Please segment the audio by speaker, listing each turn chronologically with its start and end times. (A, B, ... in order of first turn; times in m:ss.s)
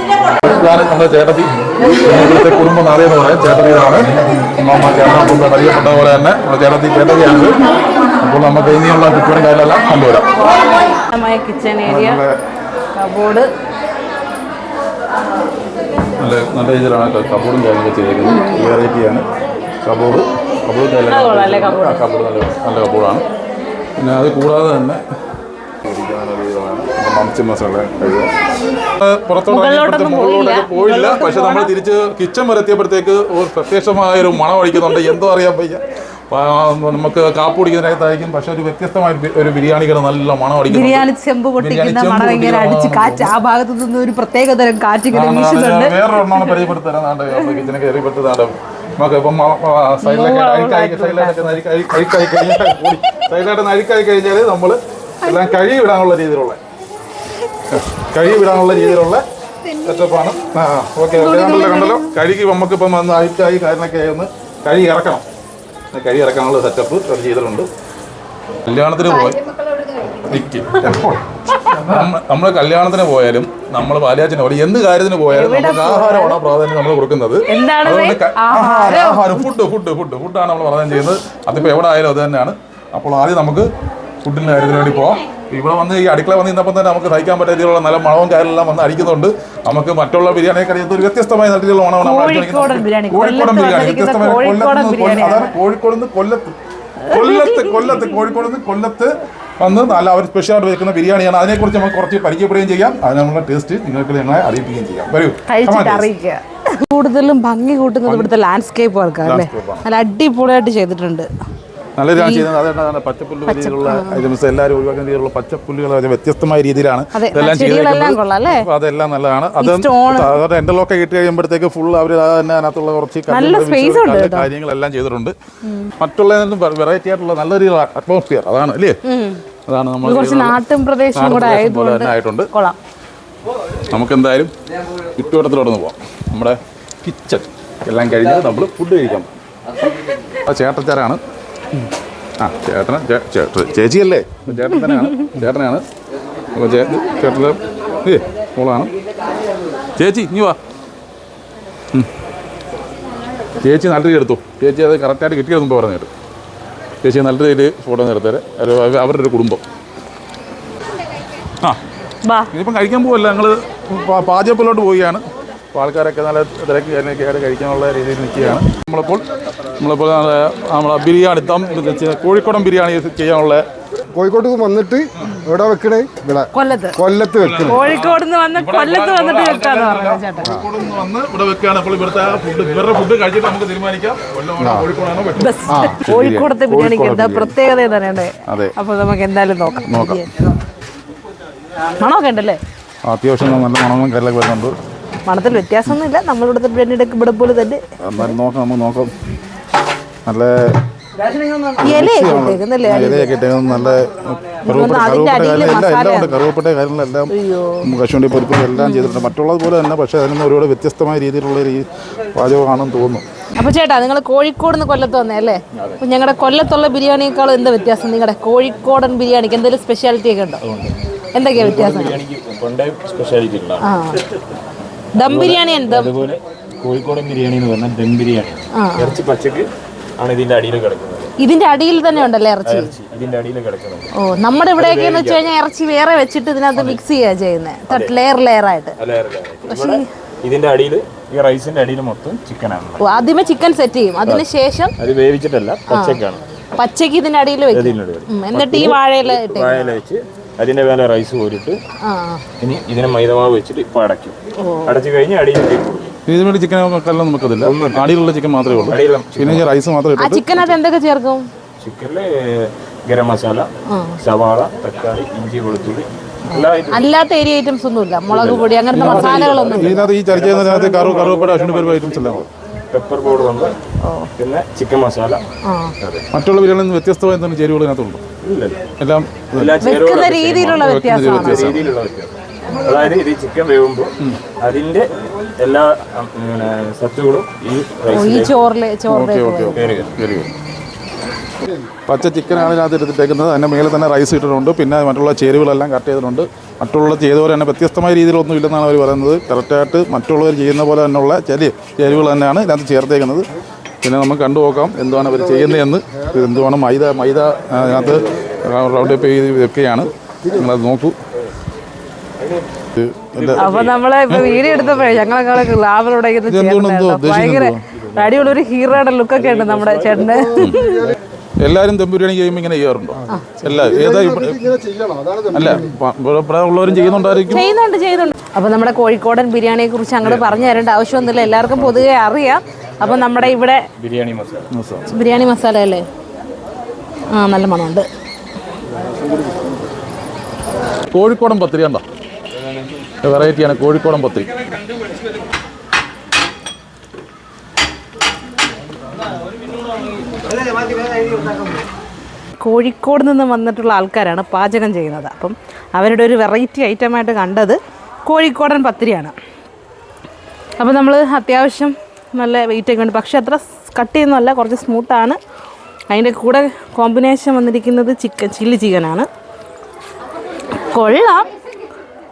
0:00.4-0:07.6 A
0:08.2-0:10.3 A
0:10.3-0:12.2 B
0:11.8-0:12.3 A
0:13.0-0:13.5 B
0:16.2-0:19.3 A
0:18.3-0:18.6 B
0:19.8-0:23.2 A
0:21.1-0:22.0 B
0:24.0-0:25.0 A
0:25.8-0:28.3 A
0:29.0-0:35.8 A
0:29.5-0:31.7 B
0:36.3-0:43.3 A
0:40.7-0:46.7 B
0:45.1-0:56.6 A
0:50.0-0:51.6 B
0:57.7-0:59.2 A
0:59.8-1:05.2 A
1:01.1-1:02.1 B
1:05.9-1:07.7 A
1:08.6-1:09.4 A
1:10.3-1:23.7 A
1:15.3-1:16.4 B
1:17.5-1:19.5 B
1:24.2-1:46.1 A
1:32.0-1:35.5 B
1:37.1-1:37.8 B
1:45.5-1:51.3 B
1:48.0-1:48.3 A
1:49.2-1:49.8 A
1:52.0-2:05.4 A
1:52.2-1:52.5 B
1:53.5-1:54.2 B
1:57.1-1:58.7 B
1:59.6-2:00.3 B
2:03.3-2:04.5 B
2:05.7-2:05.9 B
2:06.0-2:09.0 A
2:09.0-2:09.4 B
2:09.7-2:10.6 A
2:10.0-2:12.8 B
2:11.2-2:12.5 A
2:13.9-2:14.5 A
2:15.2-2:19.3 A
2:20.5-2:21.2 A
2:22.4-2:25.8 A
2:26.6-2:28.9 A
2:30.0-2:30.6 A
2:33.6-2:36.1 A
2:37.0-2:39.6 A
2:42.2-2:42.5 B
2:42.5-2:45.2 A
2:45.7-2:49.2 A
2:49.8-2:53.6 A
2:54.2-2:57.8 C
2:56.5-2:57.0 B
2:57.4-3:07.5 A
2:57.7-3:00.5 B
3:04.6-3:04.9 C
3:05.4-3:10.3 B
3:08.5-3:08.7 A
3:09.8-3:10.2 A
3:12.0-3:12.6 B
3:13.1-3:14.7 A
3:15.3-3:17.8 B
3:18.0-3:19.1 A
3:20.3-3:20.5 A
3:21.2-3:23.3 B
3:21.8-3:33.2 A
3:24.6-3:26.4 B
3:27.3-3:27.9 B
3:28.8-3:29.3 B
3:33.6-3:40.6 B
3:40.6-3:41.0 D
3:41.3-3:42.2 B
3:41.5-3:43.9 D
3:43.8-3:44.2 B
3:45.2-3:46.2 B
3:45.2-3:49.7 D
3:48.8-3:49.2 B
3:50.2-3:51.3 D
3:51.4-3:52.9 B
3:52.6-3:54.1 D
3:54.2-3:59.0 B
3:54.8-3:55.5 D
3:56.7-3:57.0 D
3:57.9-3:58.2 D
3:59.0-4:03.1 D
3:59.7-4:00.0 B
4:03.0-4:04.9 B
4:05.0-4:06.4 D
4:05.9-4:06.2 B
4:06.8-4:09.9 B
4:07.7-4:11.8 D
4:12.1-4:12.4 B
4:12.6-4:16.1 D
4:14.6-4:15.0 B
4:16.3-4:20.4 A
4:17.6-4:18.1 D
4:18.9-4:19.7 D
4:20.2-4:21.5 B
4:21.8-4:23.7 D
4:24.2-4:27.1 D
4:26.6-4:29.9 B
4:28.3-4:33.8 D
4:28.9-4:32.5 A
4:34.0-4:34.3 B
4:34.4-4:35.4 D
4:35.7-4:35.9 B
4:36.3-4:38.2 A
4:38.4-4:38.9 D
4:39.0-4:39.8 A
4:39.5-4:48.6 D
4:39.8-4:41.6 B
4:40.7-4:41.9 A
4:48.1-4:49.8 B
4:49.1-4:50.5 A
4:49.7-4:50.1 D
4:52.1-5:03.5 A
5:04.0-5:11.2 A
5:12.4-5:12.7 D
5:13.0-5:13.6 A
5:13.4-5:15.4 D
5:13.6-5:21.0 B
5:16.5-5:17.8 A
5:17.9-5:18.6 D
5:19.3-5:20.3 D
5:20.3-5:21.2 C
5:21.6-5:24.6 A
5:23.6-5:25.9 C
5:25.5-5:27.7 A
5:27.0-5:27.5 C
5:27.5-5:33.8 B
5:30.2-5:32.0 D
5:33.0-5:34.7 D
5:34.7-5:35.1 A
5:35.1-5:36.1 B
5:37.3-5:38.1 B
5:41.1-5:42.0 A
5:43.2-5:44.5 A
5:52.6-5:59.4 B
6:00.8-6:05.4 B
6:06.1-6:09.3 B
6:10.9-6:11.5 B